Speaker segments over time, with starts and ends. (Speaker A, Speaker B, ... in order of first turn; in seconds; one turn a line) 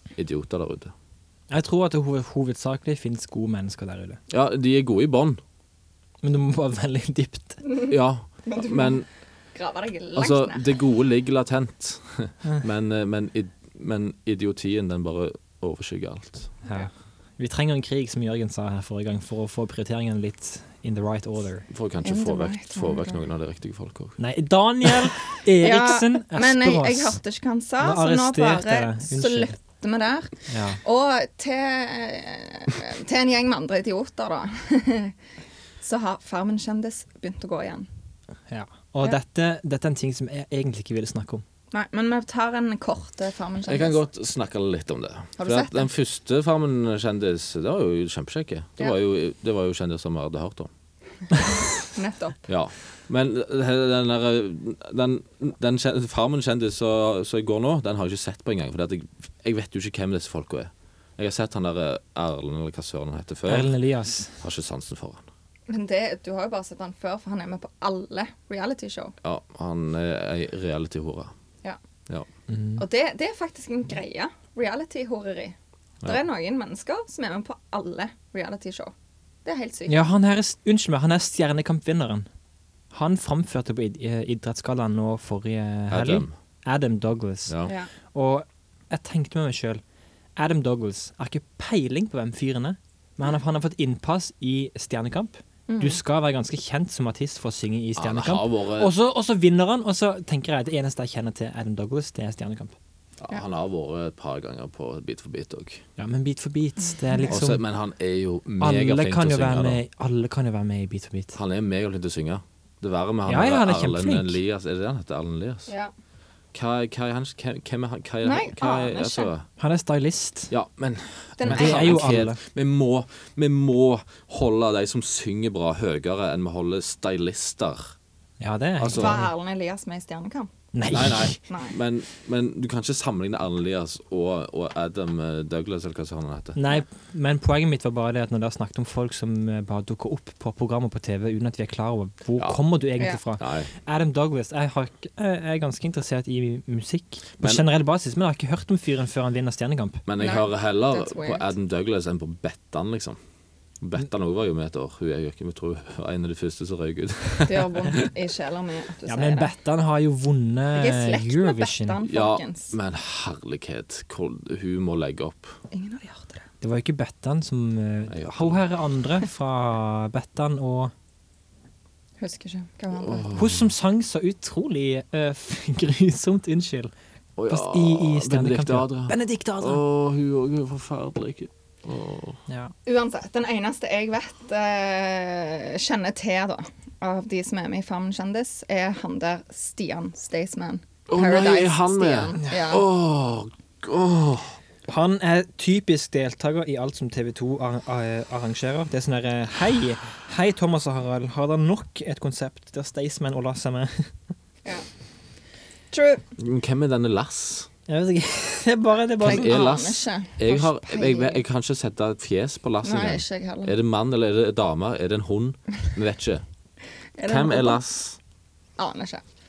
Speaker A: 0.1-0.9
Speaker B: 1.5-4.2
Speaker A: 4.3-5.4
Speaker B: 6.2-7.6
Speaker C: 7.7-7.9
Speaker A: 7.9-9.1
Speaker C: 8.4-10.7
Speaker A: 10.2-16.5
Speaker B: 16.6-21.6
Speaker A: 21.7-24.2
Speaker C: 22.0-23.2
Speaker B: 24.2-27.2
Speaker C: 25.6-35.1
Speaker B: 27.8-29.5
Speaker B: 30.5-30.8
Speaker C: 35.8-37.9
Speaker B: 38.5-41.4
Speaker C: 41.7-44.0
Speaker A: 43.7-50.7
Speaker C: 45.4-45.9
Speaker C: 51.8-52.4
Speaker A: 52.5-63.7
Speaker B: 63.5-64.4
Speaker A: 64.4-65.3
Speaker C: 65.7-69.1
Speaker A: 69.2-71.3
Speaker B: 72.5-72.8
Speaker C: 72.8-78.9
Speaker C: 79.4-80.0
Speaker B: 79.9-82.3
Speaker B: 82.9-87.5
Speaker A: 85.9-86.3
Speaker A: 87.5-87.7
Speaker B: 88.1-89.8
Speaker B: 90.4-102.8
Speaker C: 95.7-96.0
Speaker A: 98.0-98.9
Speaker A: 103.2-105.8
Speaker B: 106.0-107.6
Speaker A: 107.3-109.8
Speaker B: 108.6-111.3
Speaker A: 111.3-115.7
Speaker B: 113.2-114.4
Speaker A: 116.5-119.5
Speaker C: 118.2-119.3
Speaker B: 119.6-120.5
Speaker A: 120.5-127.9
Speaker C: 121.4-122.2
Speaker B: 121.4-122.4
Speaker B: 128.4-129.2
Speaker A: 128.8-129.2
Speaker C: 128.9-130.5
Speaker B: 130.7-131.4
Speaker A: 130.9-136.6
Speaker C: 131.5-131.7
Speaker B: 136.6-150.0
Speaker A: 143.4-143.7
Speaker A: 150.1-153.2
Speaker C: 150.2-151.5
Speaker A: 153.8-158.1
Speaker C: 157.4-159.5
Speaker B: 159.1-161.9
Speaker C: 160.7-162.8
Speaker A: 162.0-165.6
Speaker C: 165.7-166.5
Speaker B: 166.6-170.9
Speaker A: 168.1-168.6
Speaker C: 172.2-173.3
Speaker A: 173.0-173.7
Speaker B: 173.3-176.9
Speaker A: 177.3-182.4
Speaker B: 177.5-179.8
Speaker B: 182.5-182.7
Speaker C: 182.8-192.8
Speaker A: 191.1-194.6
Speaker B: 194.9-204.1
Speaker C: 205.9-206.2
Speaker A: 206.4-207.7
Speaker B: 207.9-209.5
Speaker A: 209.2-216.4
Speaker C: 209.2-211.4
Speaker C: 212.8-213.7
Speaker C: 217.2-217.8
Speaker A: 217.2-218.2
Speaker C: 218.8-219.2